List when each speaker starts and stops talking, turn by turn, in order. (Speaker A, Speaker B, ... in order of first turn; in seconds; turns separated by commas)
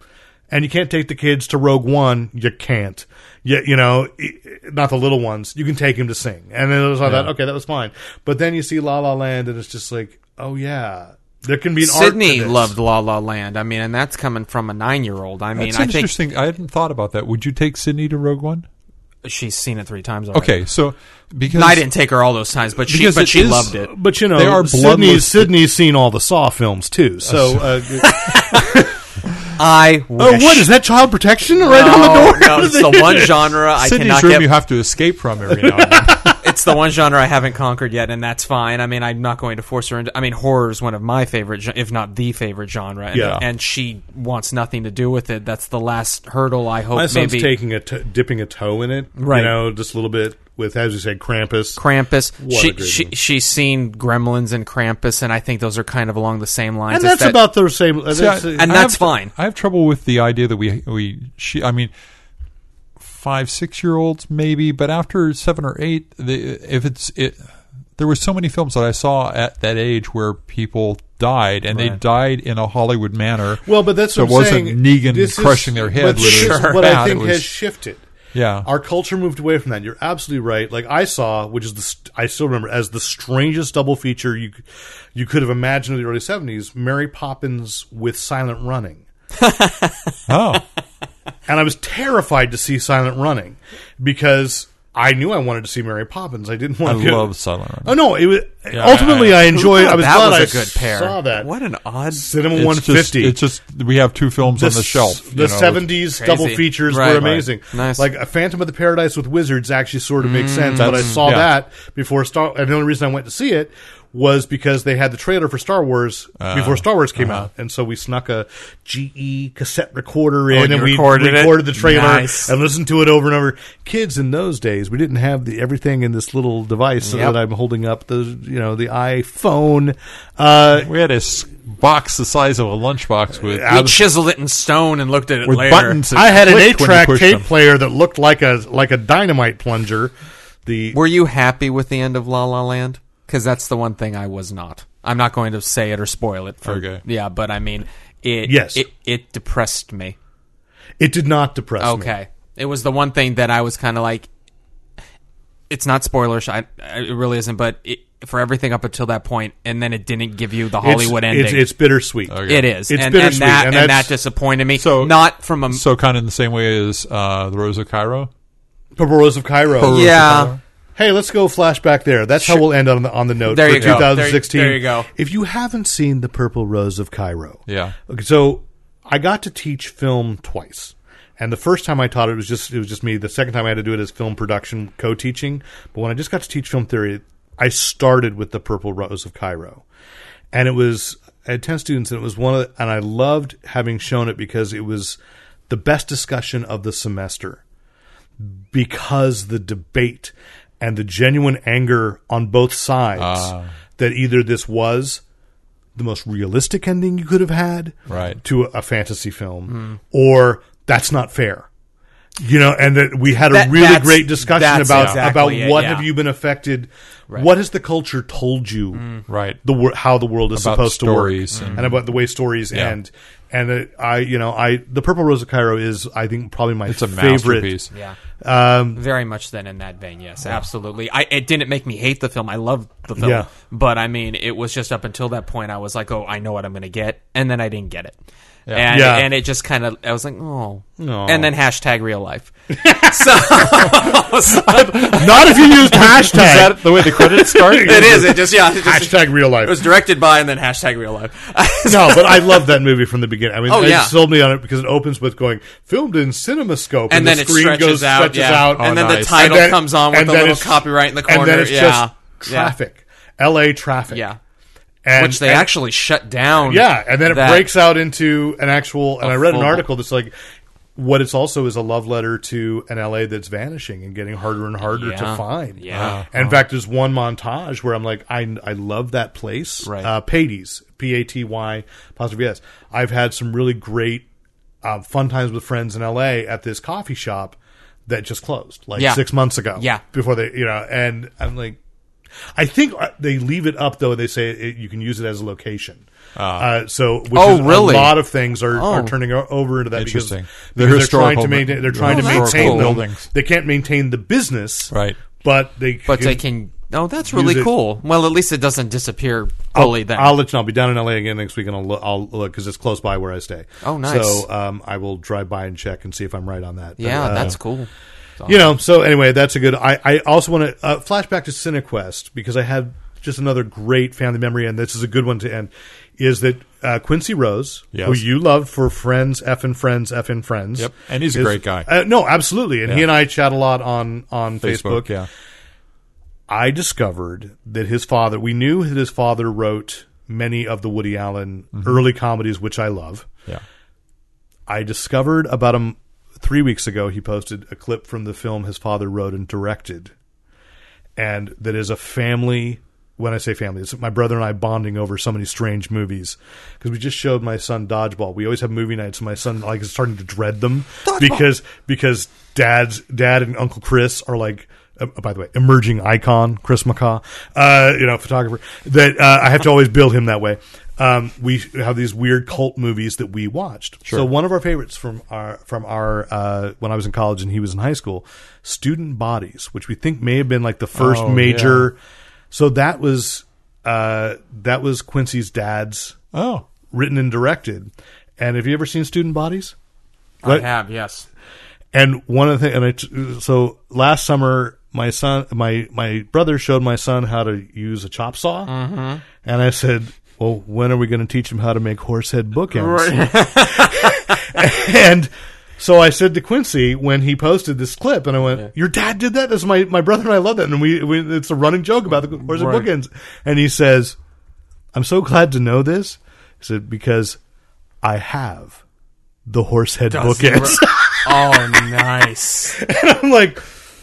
Speaker A: 0.5-12.7, Speaker B: 7.0-7.3, Speaker C: 11.8-16.1, Speaker B: 15.6-18.6, Speaker C: 19.2-20.6, Speaker B: 20.3-21.9, Speaker C: 21.5-23.9, Speaker B: 22.8-23.8, Speaker A: 23.8-28.9, Speaker B: 24.3-25.5, Speaker B: 27.2-27.8, Speaker C: 28.1-28.5, Speaker C: 29.6-30.7, Speaker A: 30.2-33.3, Speaker C: 31.6-34.5, Speaker B: 33.8-36.4, Speaker A: 35.5-36.3, Speaker C: 36.4-47.5, Speaker A: 43.1-43.4, Speaker B: 43.1-43.4, Speaker A: 46.9-51.8, Speaker C: 49.2-49.6, Speaker C: 51.8-57.4, Speaker A: 52.4-53.1, Speaker A: 56.9-58.9, Speaker B: 58.1-61.9, Speaker C: 58.6-59.3, Speaker B: 63.0-67.4, Speaker B: 68.0-77.5, Speaker C: 71.7-72.0, Speaker A: 73.7-78.0, Speaker C: 76.2-76.9, Speaker B: 78.3-78.7, Speaker A: 78.6-84.6, Speaker A: 85.1-89.0, Speaker C: 89.3-90.1, Speaker B: 90.3-90.6, Speaker A: 91.5-97.3, Speaker B: 96.8-98.0, Speaker A: 97.8-101.5, Speaker B: 98.7-99.6, Speaker C: 99.5-102.3, Speaker A: 102.1-103.4, Speaker B: 102.5-105.9, Speaker A: 104.4-130.9, Speaker C: 106.2-108.0, Speaker C: 110.2-111.2, Speaker B: 110.8-111.5, Speaker B: 116.4-117.5, Speaker C: 120.5-122.5, Speaker C: 127.0-127.4, Speaker B: 130.8-134.0, Speaker A: 133.5-133.9, Speaker C: 133.6-136.0, Speaker B: 135.4-137.4, Speaker A: 136.1-140.1, Speaker A: 140.7-141.0, Speaker C: 140.9-150.2, Speaker B: 146.6-147.0, Speaker A: 148.4-148.8, Speaker A: 151.0-152.1, Speaker C: 151.8-154.3, Speaker C: 155.7-161.7, Speaker A: 160.8-164.1, Speaker B: 162.3-162.7, Speaker C: 162.4-165.8, Speaker B: 164.8-168.3, Speaker A: 168.9-170.0, Speaker B: 169.8-170.6, Speaker C: 169.8-170.5, Speaker A: 170.9-189.8, Speaker C: 173.4-175.1, Speaker B: 173.8-174.1, Speaker B: 177.7-177.9, Speaker A: 190.5-195.2, Speaker A: 195.7-197.6, Speaker A: 198.4-205.2, Speaker B: 203.2-203.7, Speaker A: 205.9-211.7, Speaker B: 208.1-208.4, Speaker C: 209.7-210.0, Speaker A: 212.4-219.1, Speaker C: 213.5-216.1, Speaker B: 214.9-215.2, Speaker C: 218.9-219.2, Speaker B: 219.3-219.6, Speaker A: 219.6-227.7, Speaker B: 220.5-222.0, Speaker C: 221.5-221.9, Speaker B: 226.9-227.9, Speaker C: 227.9-228.2, Speaker A: 228.4-229.0, Speaker C: 228.9-245.3, Speaker A: 233.2-233.5, Speaker A: 238.9-239.3, Speaker A: 241.0-241.5, Speaker A: 242.7-249.8, Speaker B: 245.3-248.5, Speaker C: 247.5-252.7, Speaker A: 251.8-264.2, Speaker C: 253.7-254.2, Speaker C: 257.1-262.7, Speaker B: 258.7-259.5, Speaker C: 264.1-264.4, Speaker A: 265.0-265.7, Speaker C: 265.1-267.7, Speaker A: 266.6-270.3, Speaker C: 269.2-269.9, Speaker A: 270.9-284.2, Speaker C: 274.9-276.5, Speaker B: 275.9-276.3, Speaker C: 279.8-280.1, Speaker A: 284.8-287.6, Speaker A: 288.1-291.8, Speaker C: 288.9-289.2, Speaker C: 289.7-290.0, Speaker A: 292.5-296.0, Speaker B: 296.4-296.7, Speaker A: 296.6-306.4, Speaker C: 297.3-299.1, Speaker B: 299.9-303.3, Speaker C: 302.0-303.0, Speaker B: 304.9-305.2, Speaker C: 306.1-310.4, Speaker A: 307.3-307.7, Speaker A: 309.7-317.5, Speaker C: 313.8-314.4, Speaker C: 317.0-317.9, Speaker C: 318.4-318.6, Speaker A: 318.4-335.1, Speaker B: 327.9-328.2, Speaker B: 330.8-331.9, Speaker B: 334.6-335.3, Speaker A: 336.5-343.3, Speaker A: 344.7-350.1, Speaker A: 351.1-382.0, Speaker C: 361.0-361.4, Speaker B: 380.9-381.9, Speaker A: 382.5-386.2, Speaker B: 386.3-386.6, Speaker A: 386.9-389.7, Speaker C: 390.4-391.3, Speaker A: 391.9-398.7, Speaker C: 398.7-399.2, Speaker A: 399.4-414.2, Speaker C: 402.7-404.4, Speaker C: 412.4-412.9, Speaker A: 414.9-417.4, Speaker A: 418.0-418.8, Speaker A: 419.5-421.9, Speaker C: 420.1-422.8, Speaker A: 422.7-423.6